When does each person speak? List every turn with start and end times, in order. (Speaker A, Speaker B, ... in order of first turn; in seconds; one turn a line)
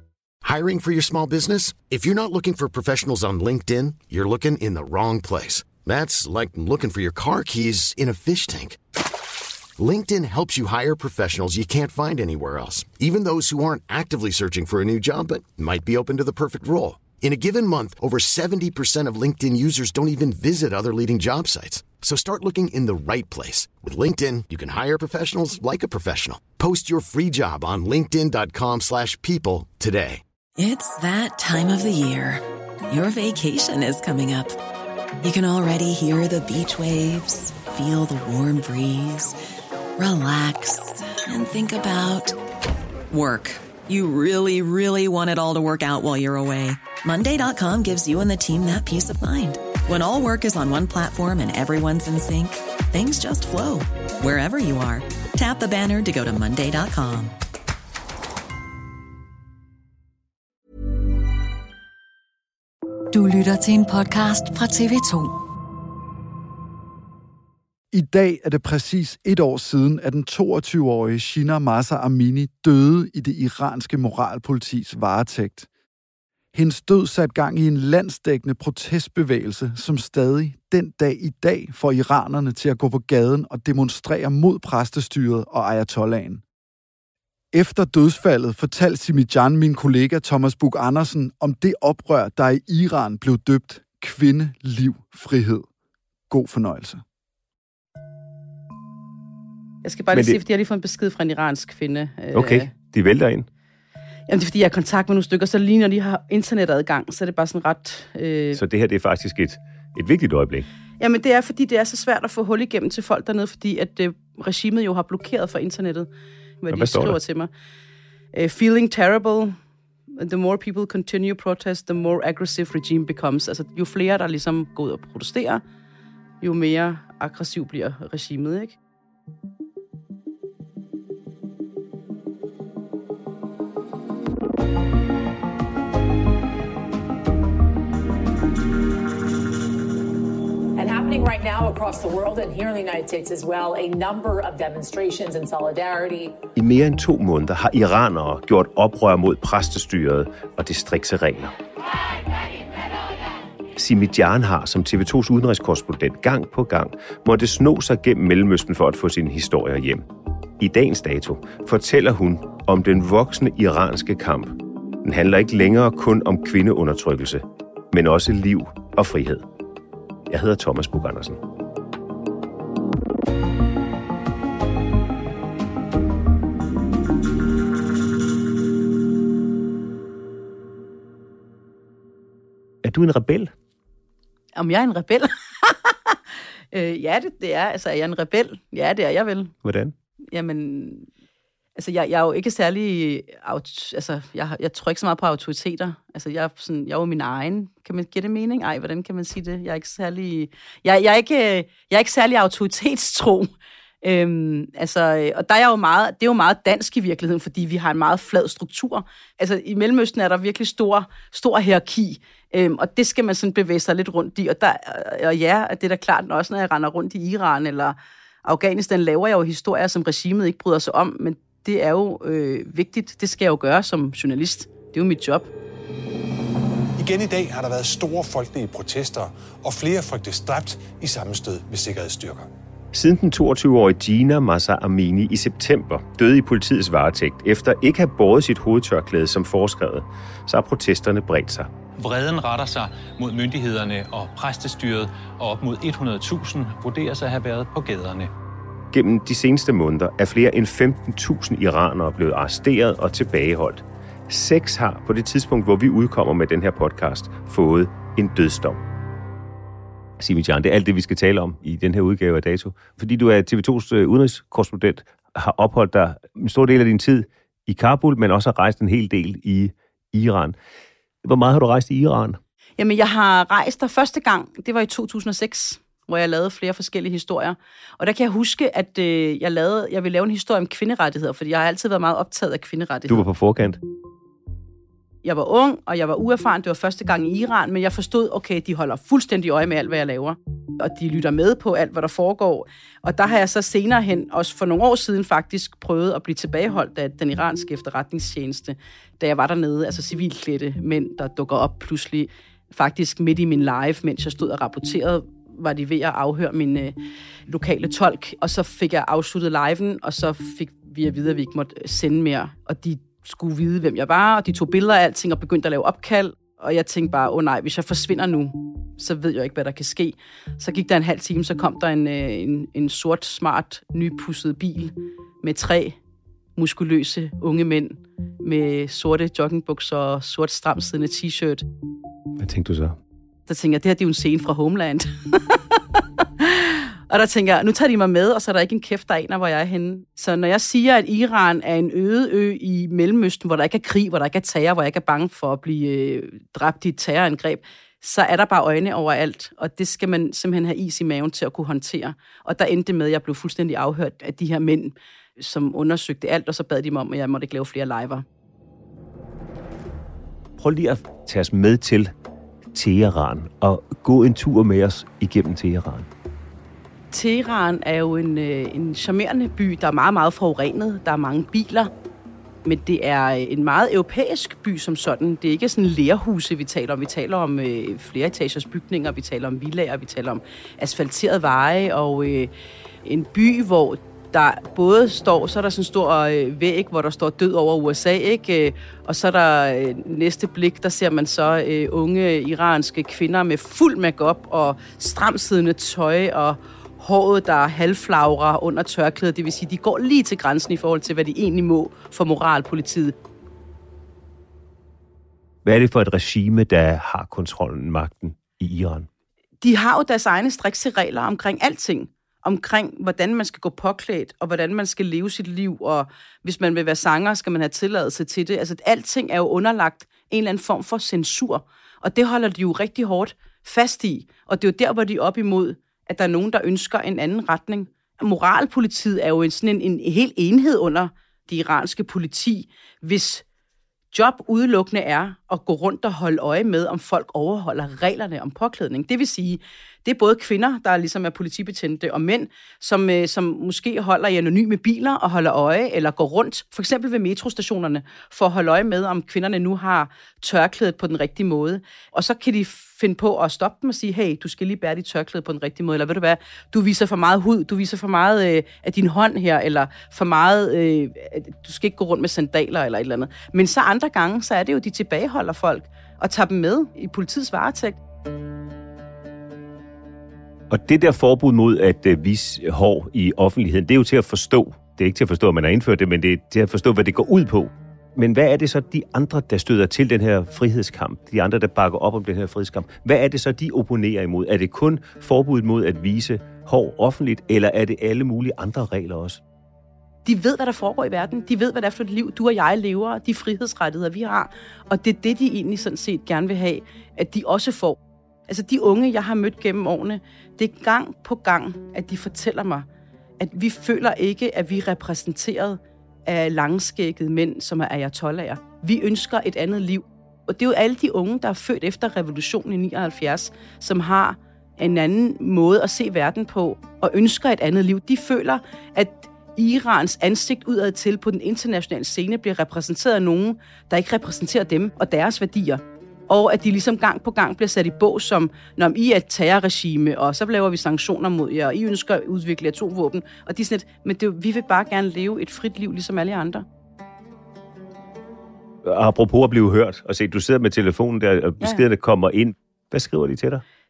Speaker A: 0.4-8.8
Speaker A: 9.8-30.2
Speaker B: 30.6-34.6
Speaker B: 35.2-39.4
Speaker B: 40.0-42.4
Speaker B: 43.1-57.3
Speaker C: 63.1-65.3
Speaker D: 67.9-75.7
Speaker D: 76.5-86.4
Speaker D: 87.5-95.7
Speaker D: 96.3-97.0
Speaker E: 99.8-102.7
Speaker F: 100.1-100.4
Speaker F: 102.3-103.5
Speaker E: 104.3-108.6
Speaker F: 108.5-110.7
Speaker E: 111.0-116.1
Speaker E: 116.6-117.5
Speaker F: 116.7-117.2
Speaker E: 118.3-119.5
Speaker E: 120.2-125.6
Speaker E: 126.4-128.8
Speaker G: 140.8-146.4
Speaker F: 146.6-151.5
Speaker F: 153.8-160.0
Speaker F: 160.6-169.4
Speaker F: 170.3-171.4
Speaker F: 182.8-183.5
Speaker E: 184.6-186.2
Speaker E: 186.7-189.5
Speaker F: 189.6-189.9
Speaker E: 190.3-191.1
Speaker E: 191.8-203.5
Speaker E: 204.0-225.5
Speaker H: 227.0-232.5
Speaker F: 232.9-241.7
Speaker I: 242.0-248.3
Speaker F: 248.9-258.8
Speaker F: 260.2-270.6
Speaker F: 271.2-272.4
Speaker E: 272.8-283.2
Speaker F: 283.1-283.8
Speaker E: 285.2-306.9
Speaker E: 307.5-326.0
Speaker E: 326.6-331.6
Speaker F: 332.4-333.0
Speaker E: 333.5-358.2
Speaker F: 360.6-362.1
Speaker F: 362.7-366.1
Speaker E: 367.1-371.9
Speaker E: 372.6-382.5
Speaker E: 383.0-403.1
Speaker F: 405.6-409.1
Speaker E: 409.6-433.4
Speaker E: 434.1-468.0
Speaker F: 470.7-489.4
Speaker E: 490.2-502.9
Speaker E: 503.4-536.6
Speaker F: 538.8-543.6